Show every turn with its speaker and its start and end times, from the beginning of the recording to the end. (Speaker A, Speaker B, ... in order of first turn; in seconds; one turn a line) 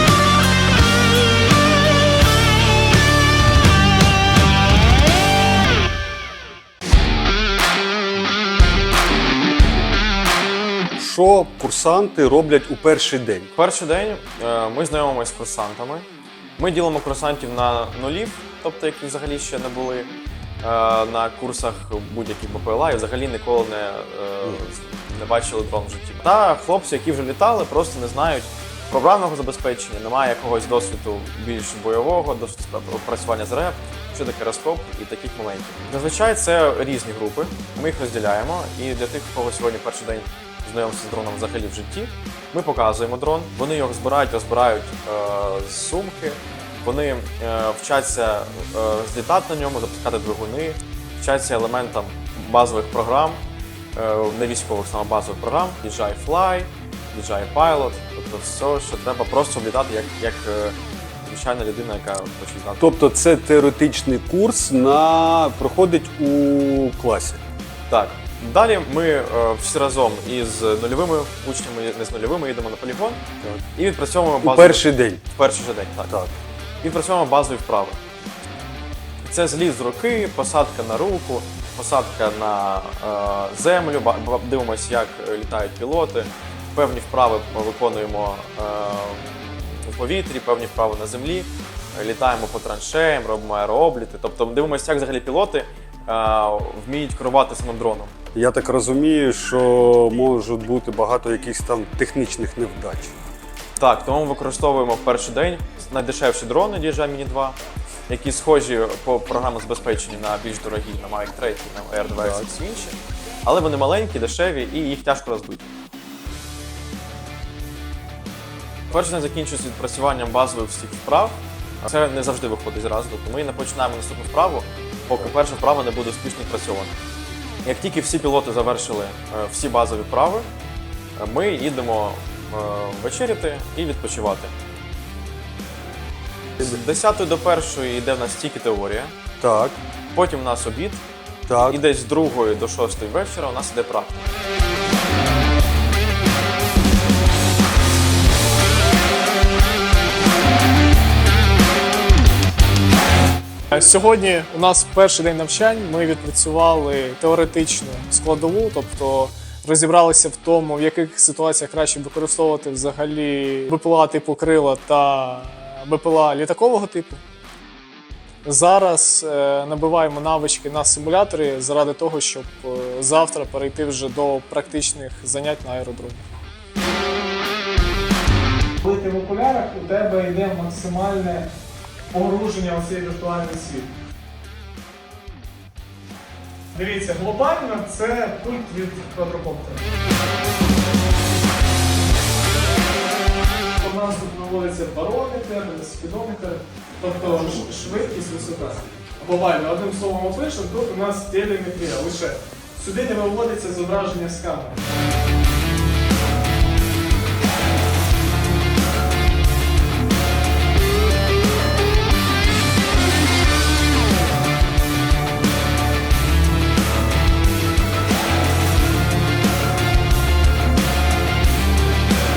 Speaker A: 11.0-13.5
Speaker B: 13.5-16.0
Speaker B: 16.6-53.4
Speaker B: 53.9-62.9
Speaker A: 62.8-67.4
Speaker B: 67.9-73.2
Speaker B: 73.7-76.2
Speaker A: 74.4-75.2
Speaker B: 76.8-78.0
Speaker B: 79.2-98.1
Speaker A: 98.3-103.1
Speaker B: 103.8-107.6
Speaker B: 108.1-115.7
Speaker B: 118.9-126.9
Speaker B: 127.6-130.5
Speaker B: 131.2-134.5
Speaker B: 136.6-139.1
Speaker A: 139.4-139.8
Speaker B: 140.1-141.0
Speaker A: 141.5-141.8
Speaker B: 141.6-144.2
Speaker C: 153.7-167.2
Speaker C: 168.4-176.2
Speaker C: 178.8-181.5
Speaker C: 182.1-183.9
Speaker C: 186.7-189.8
Speaker C: 193.8-204.8
Speaker A: 197.4-197.9